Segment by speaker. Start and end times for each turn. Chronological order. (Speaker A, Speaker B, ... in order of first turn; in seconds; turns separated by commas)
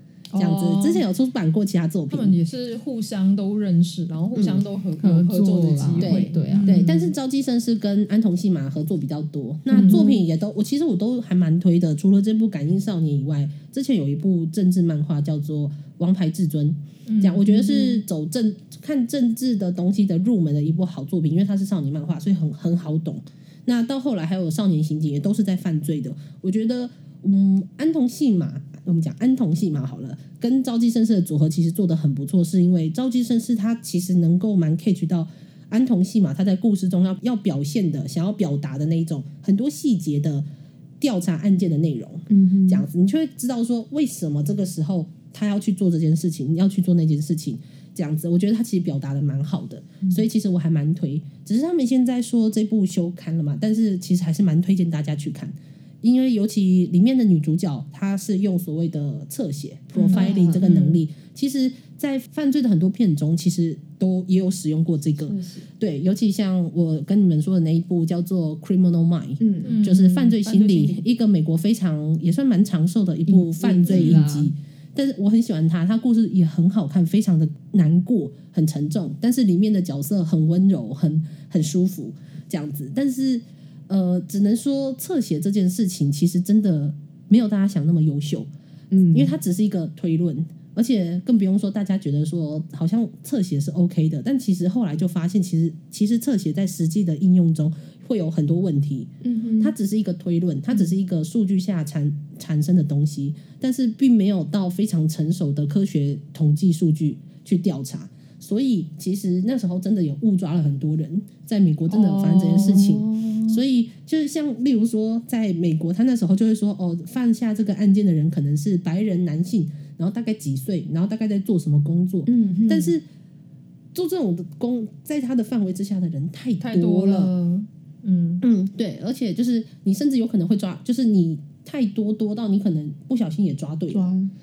Speaker A: 0.3-1.0, Speaker B: 0.4-2.4, Speaker A: 2.1-7.1, Speaker B: 4.3-4.7, Speaker C: 5.0-6.8, Speaker B: 6.0-40.5, Speaker A: 9.7-10.1, Speaker C: 9.7-10.2, Speaker A: 17.1-17.9, Speaker B: 41.0-88.5, Speaker C: 42.3-42.9, Speaker A: 60.0-61.0, Speaker C: 60.0-60.6, Speaker C: 65.2-65.7, Speaker C: 69.4-69.9, Speaker A: 69.7-70.5, Speaker C: 70.5-71.0, Speaker C: 73.3-74.5, Speaker A: 73.9-74.2, Speaker C: 88.9-89.3, Speaker B: 89.1-123.0, Speaker C: 99.2-99.7, Speaker A: 111.9-113.0, Speaker C: 112.6-113.6, Speaker C: 122.3-123.0, Speaker B: 123.9-127.3, Speaker A: 126.6-128.4, Speaker B: 128.4-134.1, Speaker C: 133.9-134.3